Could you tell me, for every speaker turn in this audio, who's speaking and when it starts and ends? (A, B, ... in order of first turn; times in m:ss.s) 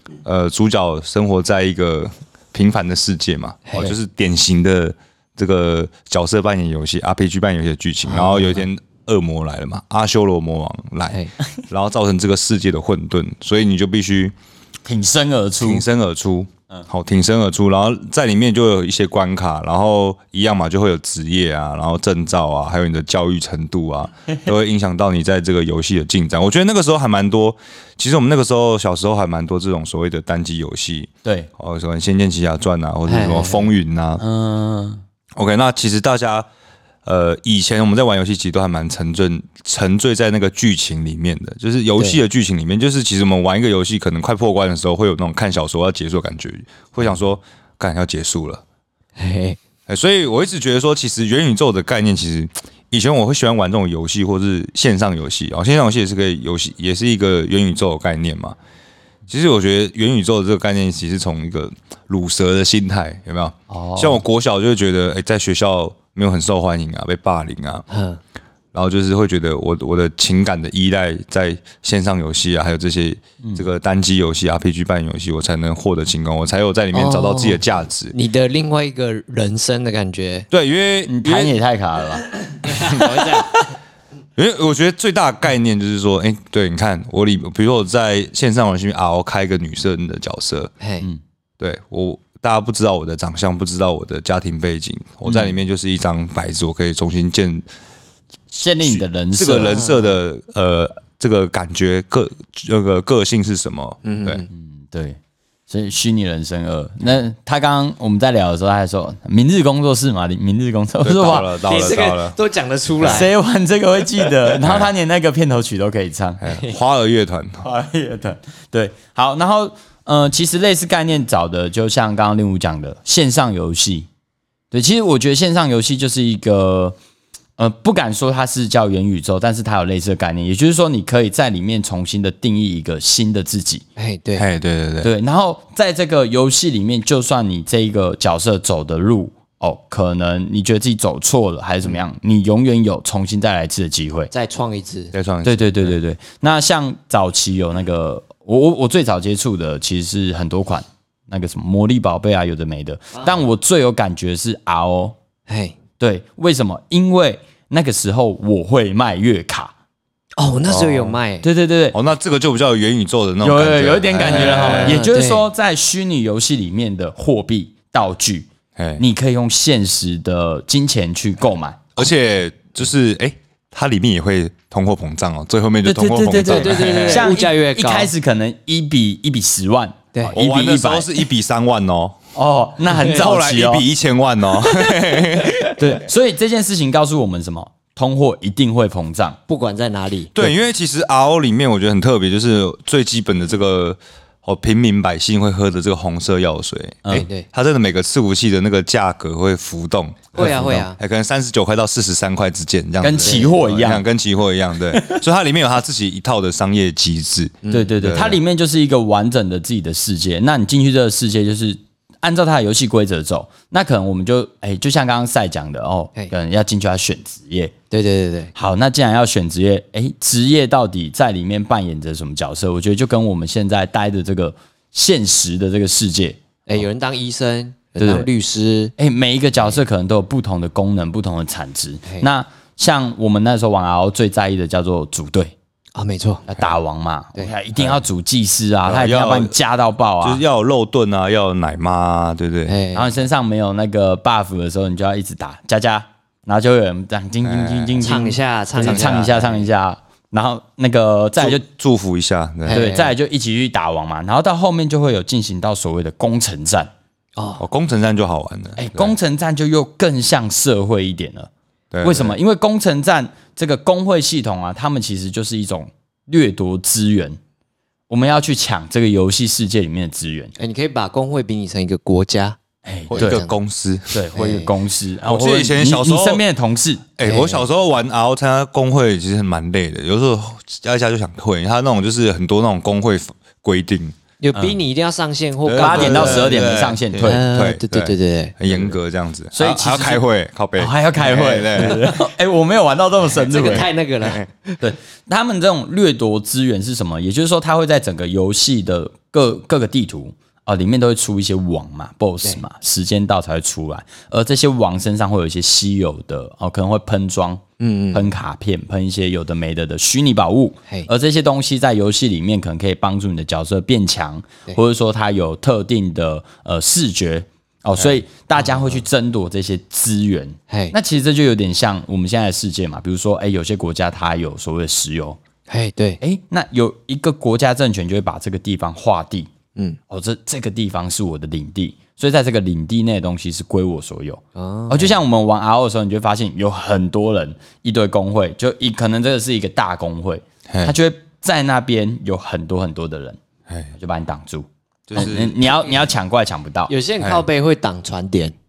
0:00.2-0:14.3 A
0:08.0-0:08.6 B
0:14.8-0:15.8 C
0:15.6-0:34.2 A
0:31.2-0:31.5 C
0:33.0-0:33.7 B
0:34.2-0:35.0 C
0:35.4-0:36.4 A
0:37.0-0:48.6 A
0:49.2-0:49.6 B
0:49.9-0:58.6 A
0:59.3-1:07.8 A
1:03.7-1:04.2 C
1:07.9-1:08.2 B
1:08.7-1:18.1 A
1:16.9-1:20.5 B
1:20.5-1:21.6 A
1:21.1-1:22.3 C
1:22.6-1:23.6 B
1:22.8-1:23.2 A
1:24.4-1:30.7 A
1:30.8-1:31.1 B
1:31.6-1:37.6 A
1:35.2-1:35.6 C
1:38.5-1:39.8 C
1:38.8-1:44.4 A
1:39.6-1:40.2 B
1:44.0-1:44.5 B
1:44.5-1:45.2 C
1:45.7-1:51.9 C
1:51.0-1:52.4 A
1:51.6-1:53.3 B
1:53.0-1:53.3 A
1:53.0-1:56.4 C
1:54.6-1:54.9 A
1:56.4-1:57.6 A
1:57.6-2:04.1 C
2:04.7-2:07.0 C
2:07.6-2:13.8 C
2:14.0-2:14.5 B
2:14.4-2:15.1 A
2:15.0-2:24.3 C
2:24.3-2:25.1 B
2:25.1-2:26.0 A
2:25.4-2:35.2 C
2:35.5-2:35.8 B
2:36.0-2:39.7 C
2:40.4-2:41.4 B
2:40.7-2:41.1 A
2:41.4-2:42.0 C
2:41.9-2:45.0 A
2:43.4-2:51.9 C
2:44.2-2:45.5 B
2:48.8-2:49.0 A
2:52.0-2:57.3 A
2:55.8-3:01.1 C
2:56.4-2:58.1 B
3:00.3-3:02.1 A
3:02.3-3:03.8 C
3:02.8-3:03.2 B
3:03.1-3:05.8 A
3:05.6-3:06.0 B
3:05.9-3:09.4 C
3:09.5-3:10.5 B
3:10.3-3:28.4 A
3:17.1-3:17.5 B
3:20.3-3:21.0 B
3:20.4-3:20.8 C
3:23.0-3:24.0 C
3:23.2-3:23.5 B
3:25.0-3:25.2 C
3:27.6-3:27.9 B
3:27.7-3:37.7 C
3:37.9-3:38.5 B
3:38.5-3:46.4 C
3:46.7-3:48.9 B
3:48.0-3:48.3 C
3:49.0-3:55.5 C
3:55.9-3:56.5 B
3:56.5-4:00.4 C
3:57.8-3:58.0 A
3:58.8-3:59.5 A
4:00.2-4:02.8 A
4:02.7-4:03.1 B
4:02.9-4:11.6 C
4:07.4-4:08.1 A
4:08.0-4:09.7 B
4:08.8-4:09.3 A
4:11.4-4:12.8 A
4:12.6-4:13.1 B
4:12.7-4:16.9 C
4:17.4-4:17.6 B
4:17.6-4:19.2 A
4:18.8-4:21.5 C
4:21.9-4:22.4 A
4:22.0-4:27.4 C
4:28.1-4:30.5 C
4:30.6-4:32.6 B
4:32.8-4:33.4 C
4:33.1-4:34.2 A
4:33.1-4:33.5 B
4:34.1-4:37.1 C
4:34.4-4:34.7 B
4:35.2-4:36.4 A
4:37.2-4:44.2 A
4:37.2-4:37.7 B
4:44.4-4:48.6 B
4:45.6-4:52.0 A
4:45.8-4:47.4 C
4:48.6-4:48.9 C
4:49.5-4:50.2 C
4:50.7-4:53.9 C
4:51.8-4:52.1 B
4:53.3-4:54.8 B
4:54.8-5:07.6 C
5:07.8-5:08.3 B
5:08.1-5:25.4 C
5:18.6-5:18.9 B
5:20.7-5:20.9 B
5:25.7-5:26.2 B
5:26.2-5:29.5 C
5:30.1-5:43.4 C
5:34.6-5:35.1 B
5:40.7-5:40.9 A
5:43.9-5:46.9 C
5:45.1-5:45.6 A
5:46.9-5:48.5 B
5:47.2-5:47.4 A